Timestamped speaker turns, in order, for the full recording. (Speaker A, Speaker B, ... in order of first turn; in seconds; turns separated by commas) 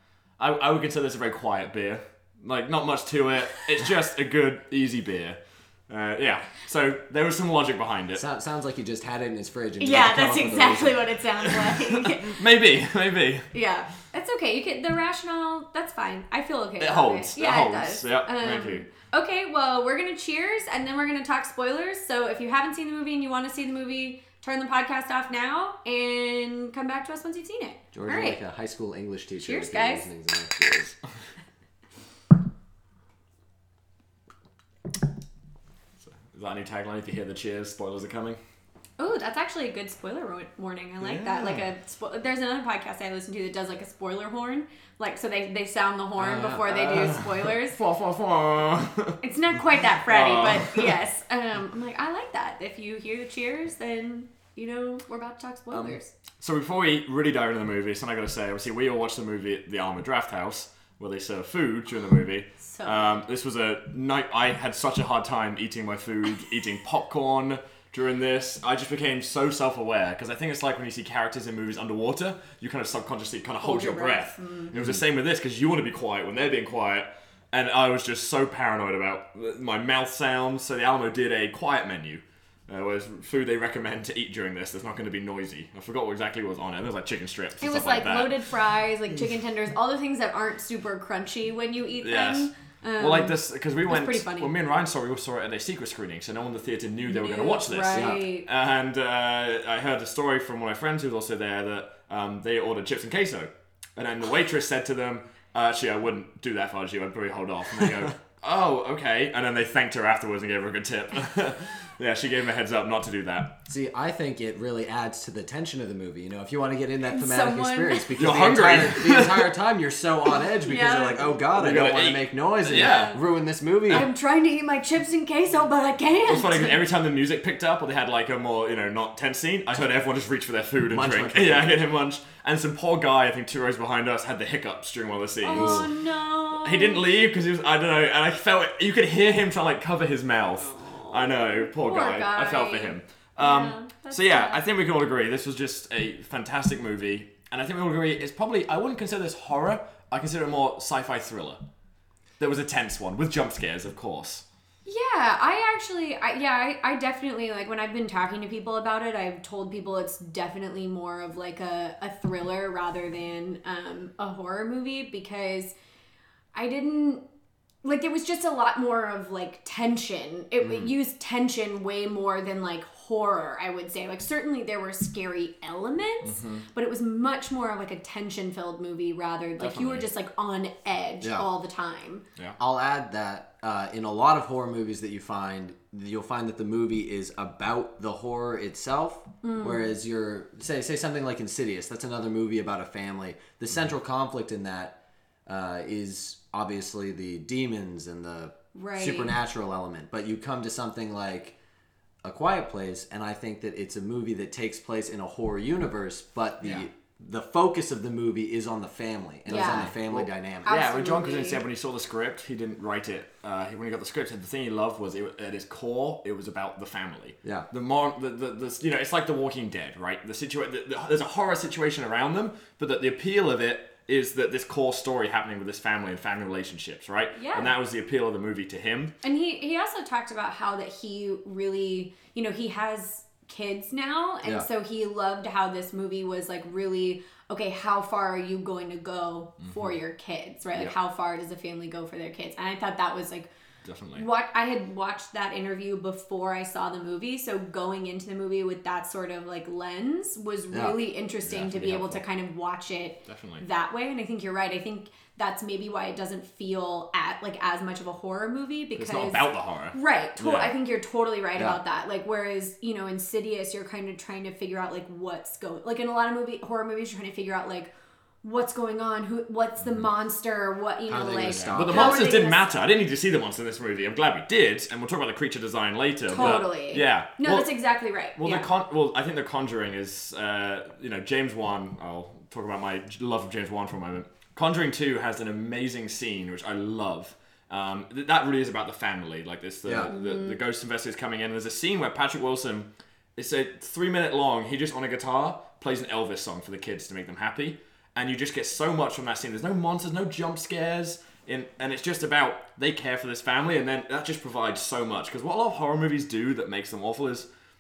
Speaker A: 0.4-8.2, Speaker B: 8.2-11.1, Speaker C: 9.8-12.4, Speaker A: 11.4-13.5, Speaker C: 13.5-28.4, Speaker A: 16.8-18.9, Speaker B: 27.9-31.0, Speaker C: 29.4-30.1, Speaker A: 36.0-38.4, Speaker C: 39.0-47.8, Speaker A: 41.0-41.6, Speaker B: 46.2-46.6, Speaker A: 46.2-49.2, Speaker C: 49.2-56.1, Speaker A: 50.1-51.0, Speaker A: 56.4-88.3, Speaker C: 62.6-63.2, Speaker C: 73.6-74.7, Speaker C: 87.6-94.5, Speaker A: 92.0-113.5, Speaker C: 97.0-98.5, Speaker B: 97.9-98.2, Speaker B: 113.7-124.1, Speaker C: 117.0-118.3, Speaker A: 118.2-119.5, Speaker C: 120.6-121.4, Speaker A: 121.5-123.2, Speaker C: 122.7-123.2, Speaker C: 123.9-126.8, Speaker A: 126.3-135.9, Speaker B: 130.9-131.8, Speaker C: 135.4-137.0, Speaker B: 135.5-135.8, Speaker A: 136.5-151.6, Speaker C: 140.7-144.7, Speaker A: 152.4-154.4, Speaker C: 154.8-165.7, Speaker C: 166.5-167.2, Speaker C: 167.8-182.2, Speaker B: 170.6-170.9, Speaker A: 176.2-176.7, Speaker A: 179.6-180.1, Speaker B: 181.2-181.5, Speaker B: 182.6-201.6, Speaker C: 189.4-189.9, Speaker C: 198.8-199.3, Speaker B: 202.2-210.7, Speaker C: 209.5-209.9, Speaker A: 209.5-229.1, Speaker C: 210.7-211.6, Speaker C: 227.3-227.7, Speaker C: 229.2-243.5, Speaker A: 239.6-239.9, Speaker A: 243.8-244.3, Speaker C: 244.2-267.9, Speaker A: 251.4-252.2, Speaker A: 253.3-253.7, Speaker A: 259.0-260.7, Speaker C: 268.4-272.7, Speaker B: 271.1-272.2, Speaker A: 271.7-277.7, Speaker C: 276.3-278.7, Speaker A: 278.4-307.5, Speaker B: 289.9-290.1, Speaker C: 290.1-290.6